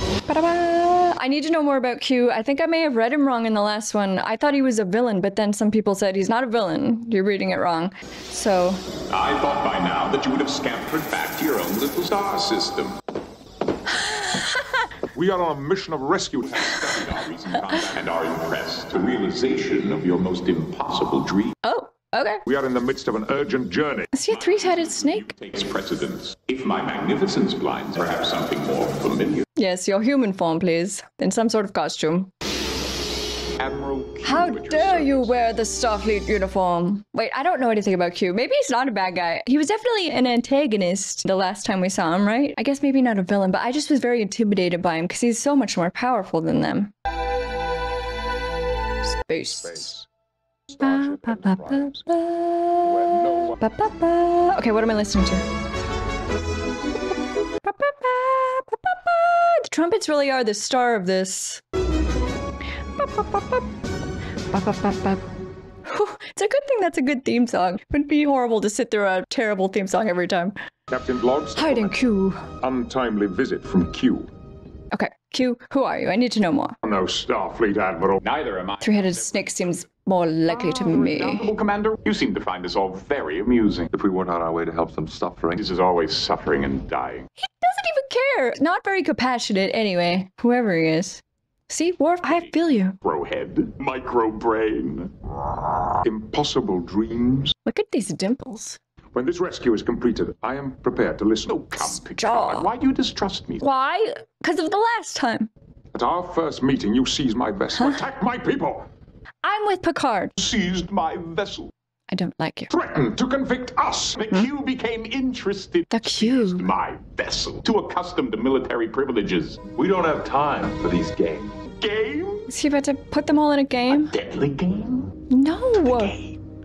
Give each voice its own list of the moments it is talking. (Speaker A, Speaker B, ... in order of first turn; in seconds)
Speaker A: 0.3-8.8, 14.0-14.7, 21.6-22.4, 24.1-25.3, 29.5-32.3, 34.2-46.9, 49.0-49.9, 50.8-55.5, 57.6-61.6, 63.0-63.7, 64.5-65.2, 65.8-70.5, 71.6-72.5, 74.9-76.8, 78.8-81.5, 87.4-93.0, 97.7-98.8, 101.7-102.7, 103.6-105.5, 109.4-110.3, 112.1-112.7, 115.9-116.7, 122.5-124.1, 125.3-126.2
Speaker B: 9.1-13.0, 16.7-21.5, 24.3-29.4, 33.6-35.5, 78.2-79.8, 80.5-83.9, 85.5-87.3, 92.2-92.5, 93.0-95.1, 101.5-103.6, 110.4-111.7, 114.2-119.7, 121.7-122.5, 123.9-125.2, 125.8-126.4
Speaker C: 15.1-16.8, 22.4-24.1, 49.6-50.0, 50.7-52.1, 52.8-53.6, 70.9-72.0, 72.6-74.3, 76.8-78.2, 96.0-97.5, 99.1-101.6, 105.9-108.9, 112.7-114.2
Speaker D: 83.9-85.6, 119.7-121.6